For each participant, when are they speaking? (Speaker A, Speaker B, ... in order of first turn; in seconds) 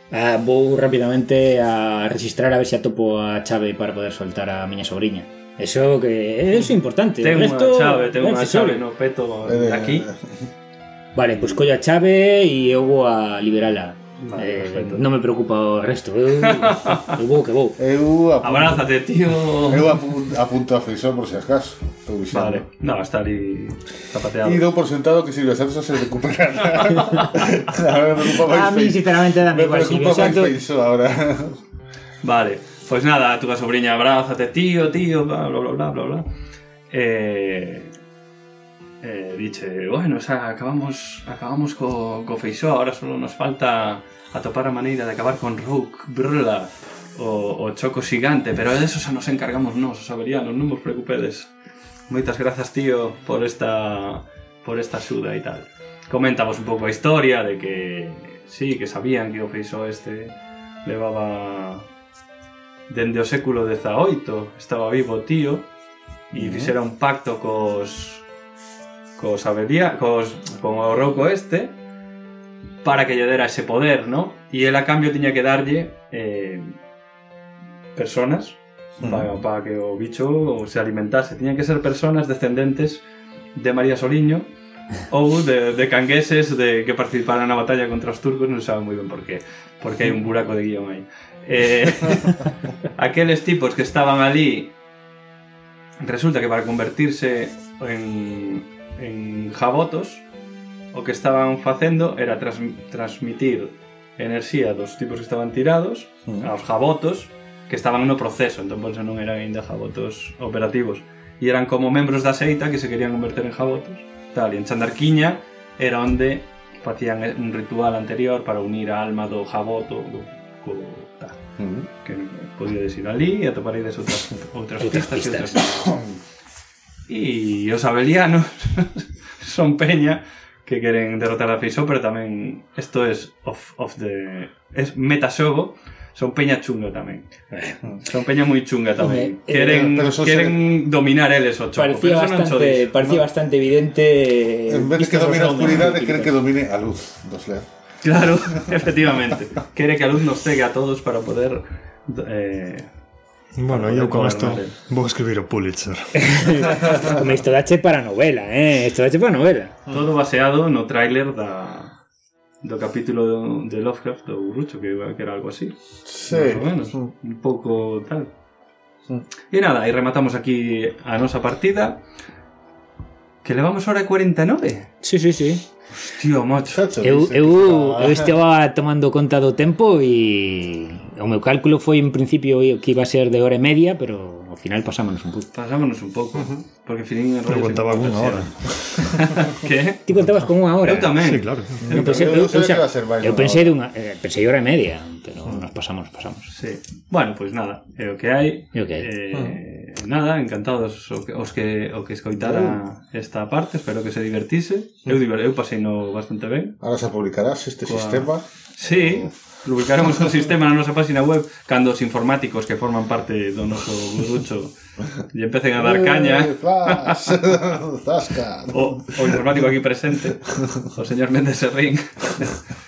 Speaker A: 0.1-8.8, 11.2-17.8, 28.4-30.5, 124.8-125.8, 137.5-137.8, 139.0-139.8, 141.8-146.3, 156.2-159.8, 175.0-175.6, 177.0-185.5, 190.1-191.2, 191.9-196.5, 198.7-199.1
Speaker B: 7.2-10.1, 14.2-15.0, 16.4-17.1, 18.4-20.1, 22.3-24.6, 26.6-27.5, 32.2-36.2, 36.9-37.9, 39.0-51.5, 52.1-61.9, 62.9-65.7, 66.3-68.2, 69.2-71.8, 72.8-76.8, 78.0-83.0, 83.5-84.5, 85.1-94.7, 96.0-100.2, 100.9-121.4, 122.0-126.0, 127.1-137.3, 138.0-143.0, 148.0-152.9, 153.7-154.7, 156.8-157.0, 159.9-161.9, 162.6-165.7, 166.3-168.3, 169.5-172.0, 173.4-174.9, 176.0-176.9, 185.5-190.1, 190.8-192.3, 196.5-206.8, 207.9-217.4, 218.7-222.6
Speaker C: 9.4-10.3, 17.8-18.9, 19.7-22.6, 24.4-31.6, 66.3-66.7, 79.0-79.3, 121.6-121.9, 139.6-140.6, 144.7-147.7, 166.1-167.1, 176.7-178.3, 191.8-193.8, 202.4-202.8, 206.8-209.3, 215.8-219.4
Speaker D: 153.6-156.6, 187.5-188.5, 191.2-191.9